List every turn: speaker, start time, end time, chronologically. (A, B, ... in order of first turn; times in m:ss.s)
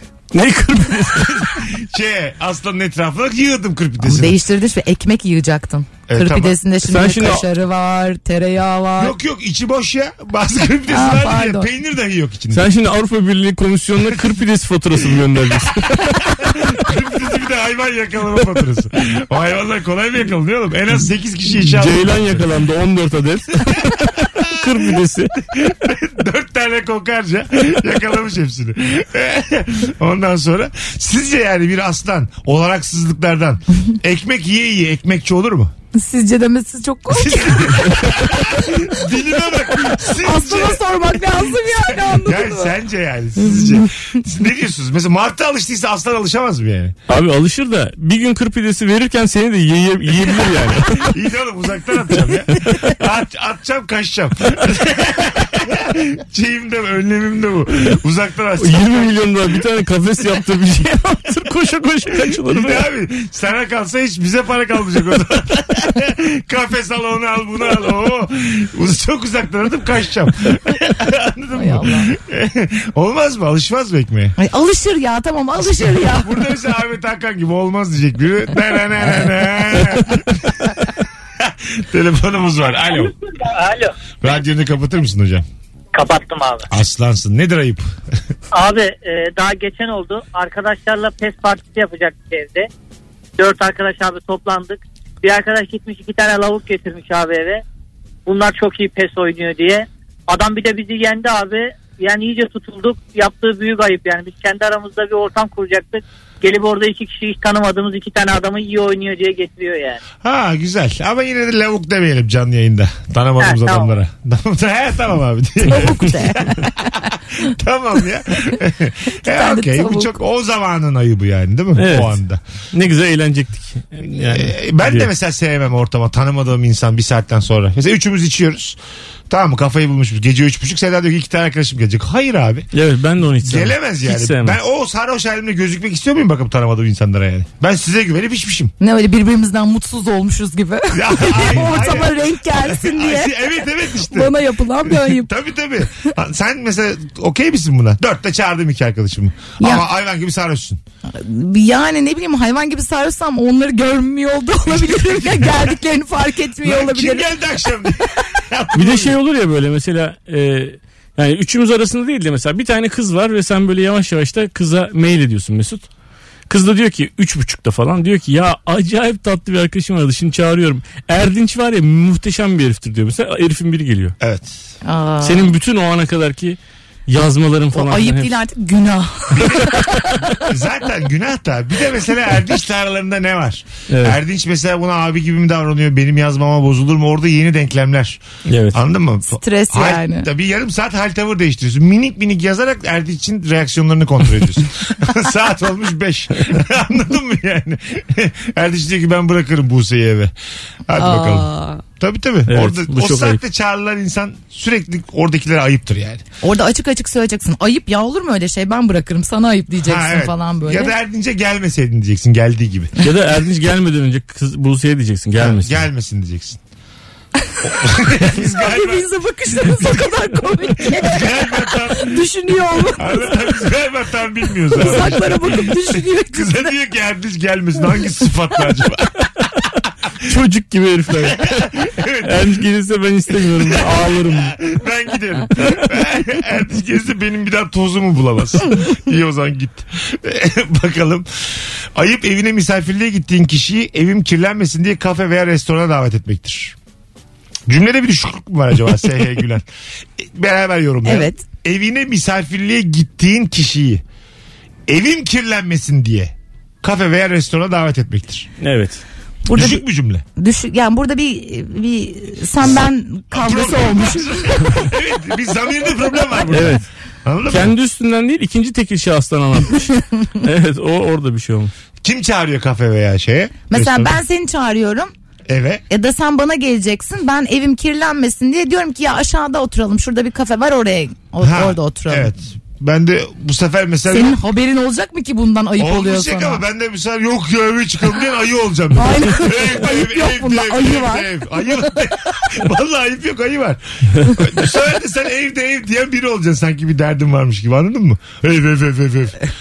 0:00.3-0:01.6 A
0:01.1-0:04.4 B
0:04.0-0:09.1 C
0:06.1-0:06.6 B
0:06.8-0:07.4 A
0:09.0-0:12.6 B
0:10.9-0:11.7 C
0:12.5-0:16.2 A
0:15.0-0:22.4 B
0:21.7-0:25.4 A
0:24.3-0:24.7 B
0:25.5-0:35.7 B
0:35.9-0:38.7 C
0:37.1-0:47.0 B
0:40.1-0:42.7 C
0:43.5-0:43.8 C
0:47.1-0:51.1 A
0:51.0-0:59.3 B
0:58.6-1:02.8 A
1:02.2-1:14.4 B
1:11.5-1:12.1 C
1:14.4-1:16.3 C
1:16.0-1:20.8 B
1:21.4-1:23.1 B
1:23.4-1:23.9 D
1:24.2-1:25.5 B
1:25.9-1:26.7 D
1:26.7-1:27.9 B
1:28.5-1:32.7 D
1:33.4-1:37.6 D
1:38.3-1:50.0 D
1:50.2-2:02.4 B
1:53.4-1:53.9 D
1:55.6-1:56.9 C
1:59.2-2:00.2 C
2:01.8-2:02.2 A
2:02.7-2:05.1 A
2:04.1-2:08.8 B
2:09.3-2:12.7 B
2:12.7-2:14.6 A
2:13.4-2:18.7 B
2:18.8-2:25.3 C
2:20.9-2:30.8 B
2:29.6-2:29.9 C
2:31.1-2:37.3 C
2:34.7-2:35.7 B
2:36.6-2:39.2 B
2:38.8-2:45.9 A
2:46.5-2:54.2 A
2:54.2-2:54.5 B
2:54.8-2:55.5 C
2:55.2-2:58.3 A
2:57.7-3:00.3 C
3:00.4-3:08.2 B
3:03.9-3:04.2 A
3:08.5-3:08.8 A
3:08.7-3:20.3 B
3:09.3-3:10.3 C
3:20.9-3:26.2 B
3:21.0-3:21.8 C
3:22.5-3:23.4 A
3:26.4-3:30.9 C
3:29.8-3:33.0 B
3:33.0-3:35.8 A
3:35.4-3:36.6 B
3:37.6-3:39.1 B
3:38.3-3:43.5 C
3:39.8-3:40.2 B
3:40.8-3:42.3 B
3:42.8-3:49.5 B
3:44.7-3:46.7 C
3:50.2-3:54.6 A
3:51.4-3:52.5 B
3:53.6-4:01.3 B
4:02.0-4:06.8 B
4:07.7-4:09.6 B
4:10.2-4:14.0 B
4:11.0-4:11.4 C
4:14.9-4:18.5 B
4:18.6-4:19.0 A
4:19.5-4:19.8 C
4:19.5-4:20.2 B
4:20.4-4:24.9 C
4:22.6-4:27.7 B
4:26.5-4:26.8 A
4:27.5-4:31.7 A
4:32.0-4:34.2 B
4:33.7-4:35.1 C
4:35.5-4:35.8 B
4:35.9-4:42.3 C
4:41.4-4:44.4 B
4:44.1-4:46.6 C
4:45.8-4:59.4 B
4:49.0-4:51.3 C